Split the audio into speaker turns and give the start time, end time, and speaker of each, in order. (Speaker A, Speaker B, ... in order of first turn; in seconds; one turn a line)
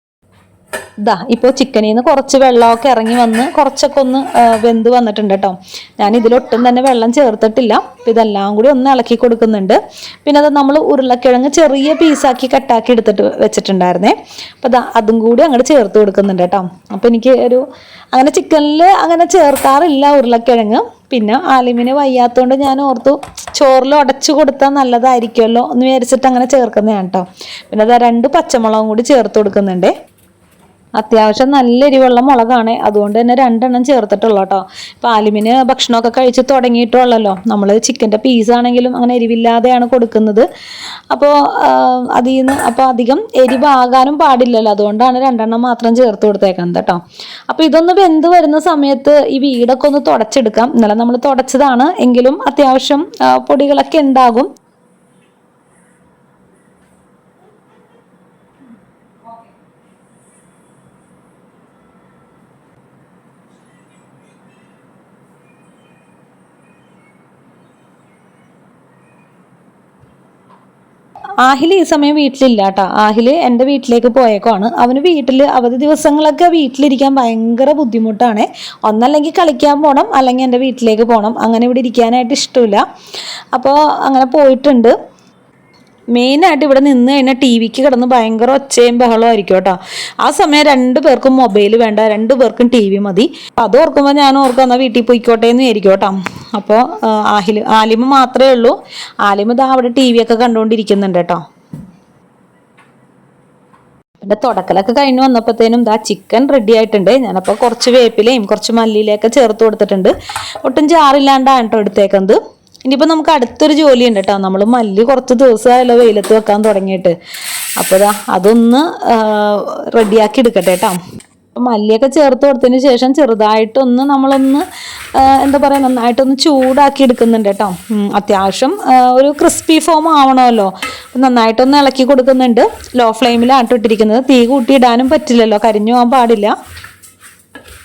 Speaker A: 1.0-29.9
Speaker A: 31.0-40.5
Speaker A: 41.1-54.5
Speaker A: 71.4-82.8
Speaker A: 83.5-84.9
Speaker A: 86.1-101.4
Speaker A: 104.2-117.2
Speaker A: 117.8-121.0
Speaker A: 121.5-136.5